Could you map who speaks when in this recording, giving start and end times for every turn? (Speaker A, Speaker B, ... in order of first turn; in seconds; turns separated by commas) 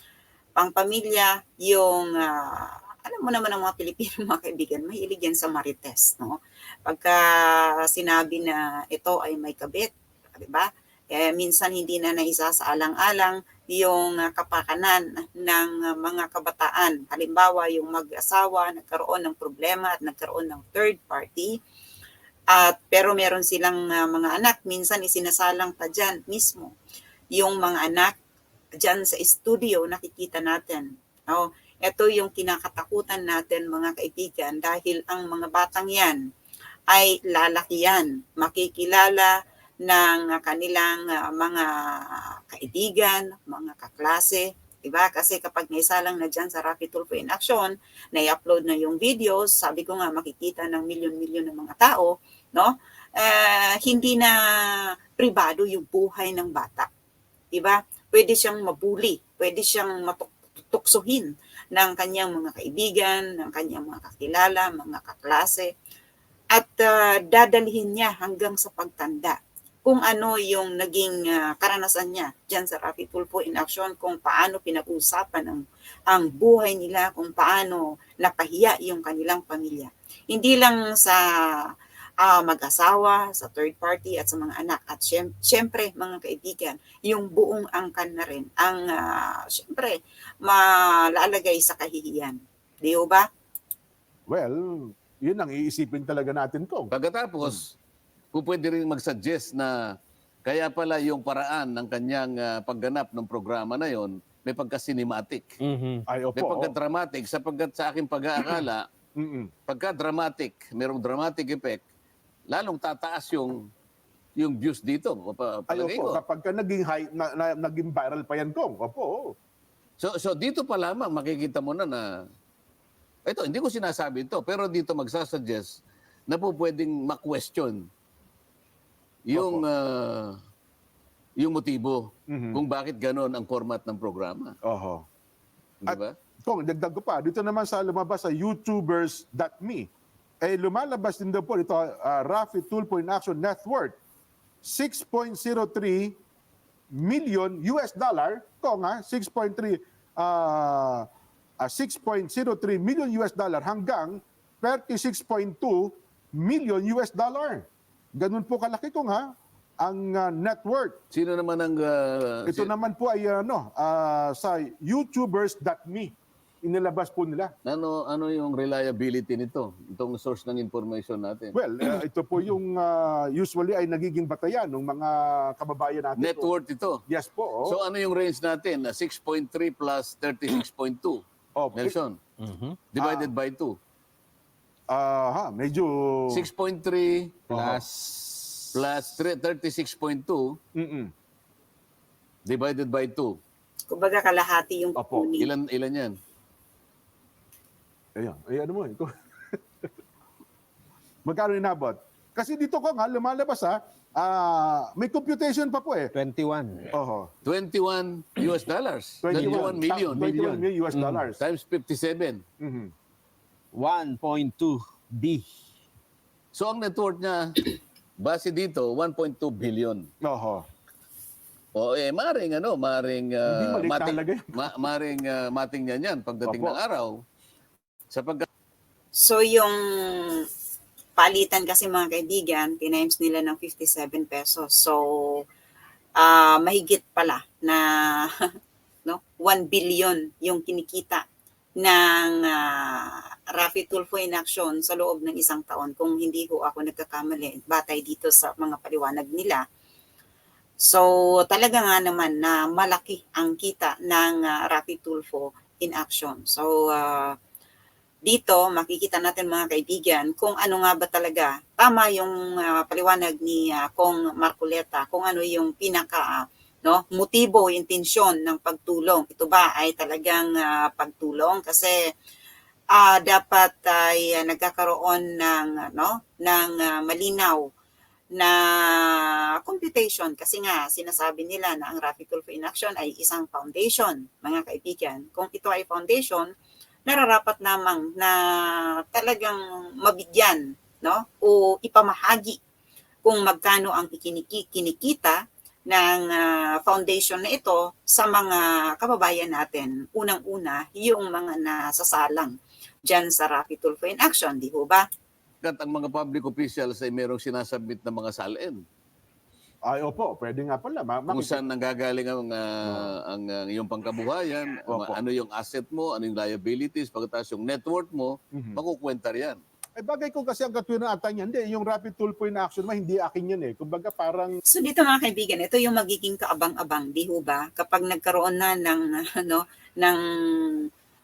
Speaker A: 0.6-21.6, Speaker A: 22.5-26.7, Speaker A: 27.3-28.2, Speaker A: 28.8-36.3, Speaker A: 36.9-56.9, Speaker A: 57.5-65.7, Speaker A: 66.5-93.3, Speaker B: 94.3-96.9, Speaker C: 96.9-97.7, Speaker C: 98.3-99.8, Speaker C: 100.5-105.6, Speaker D: 105.6-106.1, Speaker B: 106.1-106.7, Speaker C: 106.4-108.9, Speaker B: 109.2-109.5, Speaker C: 109.7-111.8, Speaker C: 112.5-113.7, Speaker C: 114.4-116.2, Speaker B: 115.7-119.3, Speaker C: 120.0-122.0, Speaker C: 123.3-127.9, Speaker C: 129.3-130.4, Speaker B: 129.3-129.7, Speaker C: 131.4-134.5, Speaker B: 132.3-132.6, Speaker B: 134.6-135.1, Speaker B: 135.8-139.9, Speaker C: 135.9-136.2, Speaker B: 140.4-144.0, Speaker B: 144.6-146.2, Speaker B: 146.9-151.1, Speaker B: 151.6-161.0, Speaker C: 161.1-162.7, Speaker B: 162.5-167.5, Speaker C: 167.7-171.5, Speaker B: 171.5-176.5, Speaker C: 176.2-177.0, Speaker B: 177.1-177.8, Speaker C: 177.7-181.2, Speaker B: 181.6-182.0, Speaker C: 181.8-182.2, Speaker D: 182.4-182.8, Speaker C: 182.9-183.8, Speaker B: 183.0-183.3, Speaker B: 184.9-186.5, Speaker C: 186.3-187.4, Speaker B: 187.5-187.8, Speaker D: 187.5-188.8, Speaker C: 188.7-190.6, Speaker B: 190.8-191.1, Speaker C: 192.5-193.4, Speaker A: 193.9-195.5, Speaker B: 195.0-195.3, Speaker C: 195.4-196.1, Speaker B: 198.2-199.9, Speaker B: 201.3-206.1, Speaker D: 206.2-206.9, Speaker B: 206.9-207.3, Speaker C: 207.4-210.6, Speaker B: 209.2-211.4, Speaker D: 209.3-211.3, Speaker C: 211.4-212.4, Speaker B: 212.6-212.9, Speaker D: 213.8-215.5, Speaker C: 216.5-220.1, Speaker B: 220.2-220.7, Speaker C: 221.8-227.2, Speaker B: 223.4-224.8, Speaker B: 226.5-226.8, Speaker C: 228.1-228.5, Speaker A: 229.2-230.5, Speaker A: 231.2-235.4, Speaker A: 236.2-238.4, Speaker A: 239.1-241.2, Speaker A: 241.8-249.6, Speaker A: 250.8-257.4, Speaker A: 258.3-271.9, Speaker A: 272.9-277.7, Speaker A: 278.4-286.5, Speaker A: 287.1-292.6, Speaker A: 293.2-302.5, Speaker A: 303.1-305.1, Speaker C: 305.6-308.8, Speaker B: 309.9-311.6, Speaker C: 311.3-319.6, Speaker B: 312.9-313.1, Speaker B: 314.9-315.2, Speaker B: 318.5-318.8, Speaker B: 320.0-324.5, Speaker A: 324.7-330.9